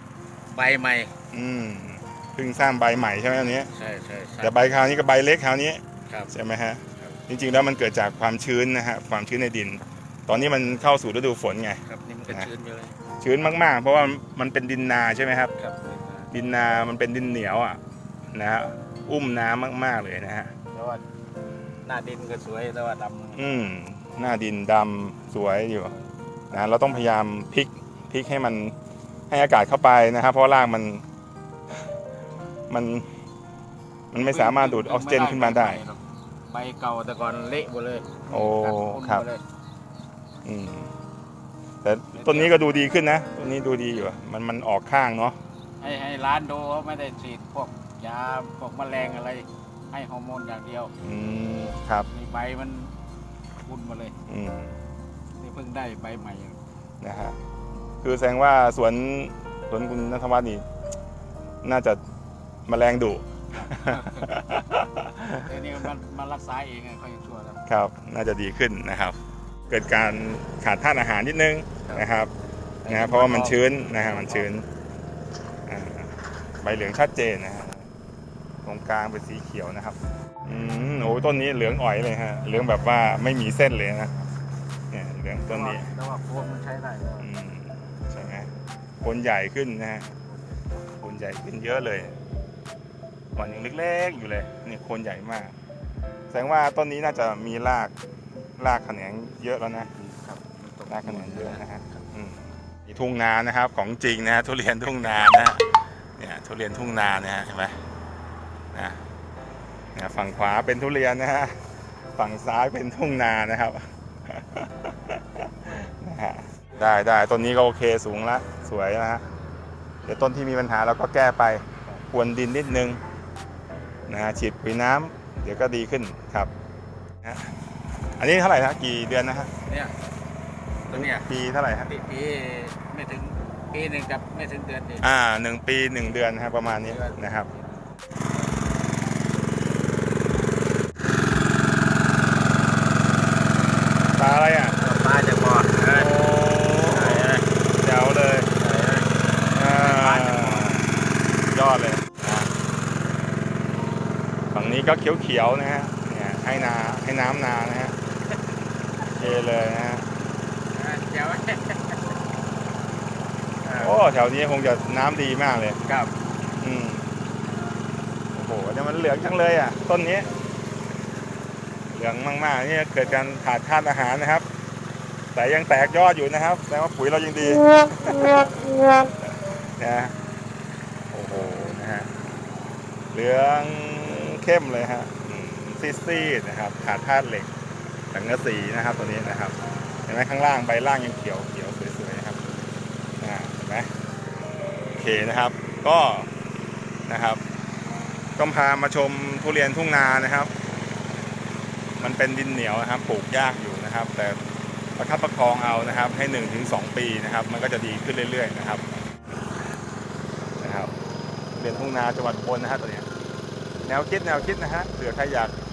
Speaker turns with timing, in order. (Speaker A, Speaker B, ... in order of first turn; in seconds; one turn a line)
Speaker A: 0.5-1.1
Speaker B: 1.3-3.7
Speaker A: 3.7-4.7
Speaker B: 4.4-12.5
Speaker A: 11.9-13.0
Speaker B: 13.2-15.5
Speaker A: 15.6-16.3
Speaker B: 16.3-17.8
Speaker B: 18.3-20.5
Speaker A: 20.7-21.0
Speaker A: 21.9-23.5
Speaker B: 23.4-25.9
Speaker B: 26.5-28.8
Speaker B: 29.3-31.0
Speaker B: 32.7-33.1
Speaker B: 34.1-35.8
Speaker A: 34.2-39.4
Speaker B: 38.3-39.3
Speaker B: 40.5-40.9
Speaker B: 41.8-45.4
Speaker A: 42.2-42.6
Speaker A: 45.8-50.9
Speaker B: 51.0-52.1
Speaker A: 52.1-53.0
Speaker A: 53.6-54.1
Speaker B: 54.3-54.8
Speaker A: 55.4-56.6
Speaker B: 57.0-57.4
Speaker B: 58.0-60.6
Speaker B: 61.6-62.0
Speaker B: 62.7-65.8
Speaker A: 63.5-64.5
Speaker A: 65.4-67.6
Speaker B: 67.7-69.2
Speaker B: 69.7-72.3
Speaker A: 72.8-74.5
Speaker B: 72.9-74.7
Speaker B: 75.7-77.9
Speaker B: 78.6-84.2
Speaker B: 84.9-85.9
Speaker A: 85.5-87.3
Speaker B: 87.2-88.5
Speaker B: 89.0-90.1
Speaker A: 90.1-90.7
Speaker B: 91.0-92.2
Speaker B: 93.3-95.5
Speaker B: 96.3-97.9
Speaker B: 98.6-99.9
Speaker A: 99.9-102.0
Speaker B: 100.9-107.8
Speaker B: 108.7-109.0
Speaker B: 109.9-111.6
Speaker B: 112.2-119.3
Speaker B: 120.0-123.0
Speaker B: 124.1-126.5
Speaker B: 127.2-127.5
Speaker B: 128.2-129.5
Speaker A: 129.7-129.9
Speaker A: 130.9-131.3
Speaker B: 130.9-131.9
Speaker A: 131.8-135.1
Speaker B: 135.0-137.5
Speaker A: 136.9-137.8
Speaker B: 144.2-144.8
Speaker A: 144.8-146.1
Speaker B: 145.8-148.5
Speaker A: 146.7-147.5
Speaker A: 148.6-150.8
Speaker B: 149.5-150.9
Speaker B: 151.5-152.5
Speaker B: 154.5-158.0
Speaker B: 159.2-160.1
Speaker A: 160.7-162.0
Speaker A: 163.6-163.9
Speaker B: 163.8-165.8
Speaker A: 165.9-166.1
Speaker B: 166.6-167.1
Speaker B: 168.3-170.3
Speaker B: 171.9-174.5
Speaker B: 175.3-180.1
Speaker B: 181.1-182.1
Speaker B: 183.1-187.5
Speaker B: 188.1-192.4
Speaker B: 193.2-193.9
Speaker B: 194.9-196.3
Speaker B: 197.1-197.4
Speaker B: 198.4-200.5
Speaker B: 202.0-204.4
Speaker B: 205.0-209.1
Speaker B: 210.6-210.9
Speaker B: 211.6-213.1
Speaker B: 213.8-215.5